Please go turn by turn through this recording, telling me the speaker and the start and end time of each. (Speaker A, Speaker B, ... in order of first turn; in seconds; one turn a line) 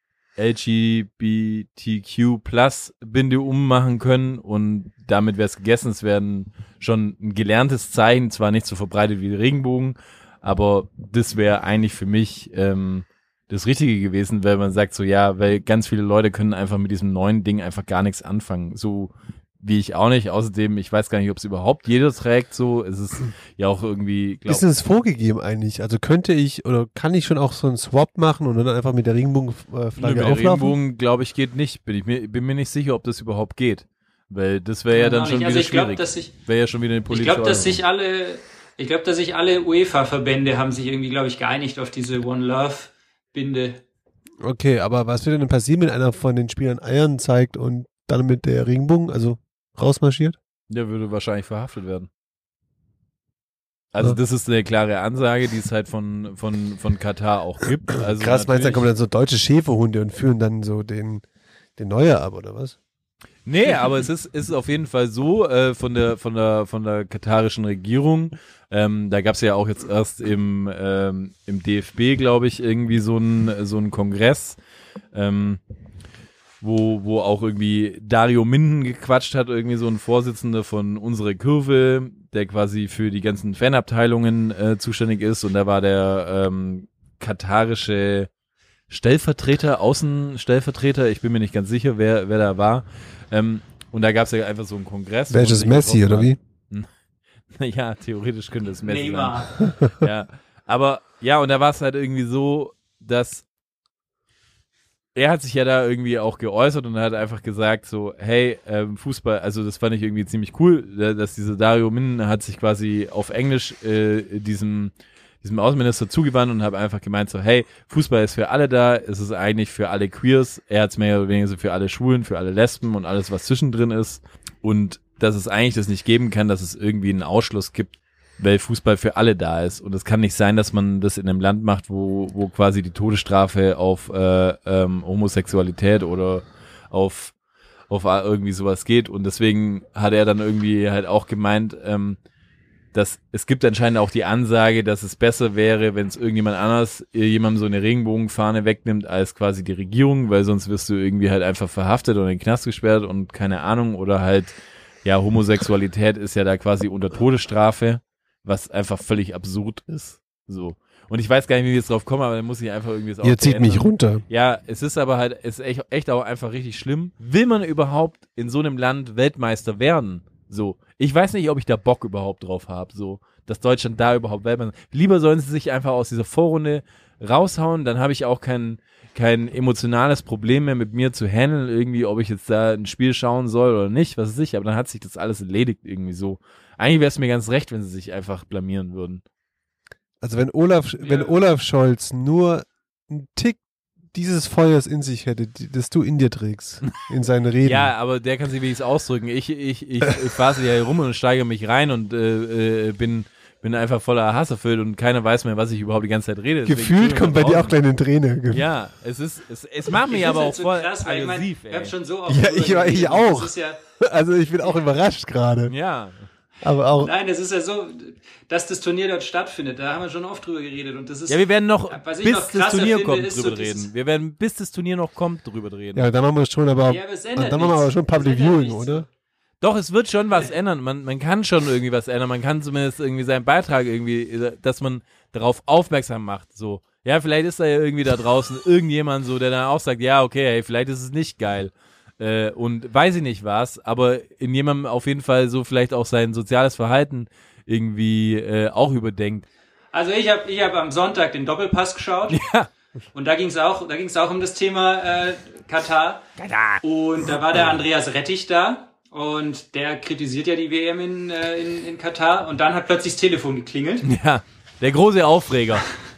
Speaker A: 0.4-24.6
Speaker B: 24.5-30.8
Speaker A: 30.0-37.8
Speaker C: 34.9-36.3
Speaker C: 37.1-43.8
Speaker B: 44.4-50.4
Speaker A: 50.7-52.1
Speaker A: 53.9-58.9
Speaker B: 58.0-61.2
Speaker B: 61.8-62.8
Speaker A: 63.5-74.6
Speaker A: 75.1-75.6
Speaker A: 76.6-88.3
Speaker A: 88.9-96.9
Speaker B: 95.3-96.4
Speaker A: 97.5-103.5
Speaker C: 98.8-99.5
Speaker A: 105.2-137.3
Speaker A: 137.9-142.2
Speaker A: 142.9-154.5
Speaker A: 155.1-189.2
Speaker B: 163.2-164.2
Speaker B: 190.2-193.6
Speaker C: 191.0-191.3
Speaker B: 194.1-197.9
Speaker A: 197.6-207.8
Speaker B: 206.7-208.7
Speaker A: 208.5-211.9
Speaker C: 210.1-213.8
Speaker B: 212.3-215.7
Speaker A: 215.7-216.3
Speaker B: 216.6-217.1
Speaker C: 217.0-223.9
Speaker A: 221.3-226.1
Speaker B: 225.9-229.1
Speaker C: 226.9-229.1
Speaker A: 229.6-249.5
Speaker C: 249.9-252.4
Speaker A: 252.3-252.7
Speaker C: 253.1-256.3
Speaker A: 256.4-256.8
Speaker C: 256.8-264.1
Speaker A: 264.1-265.9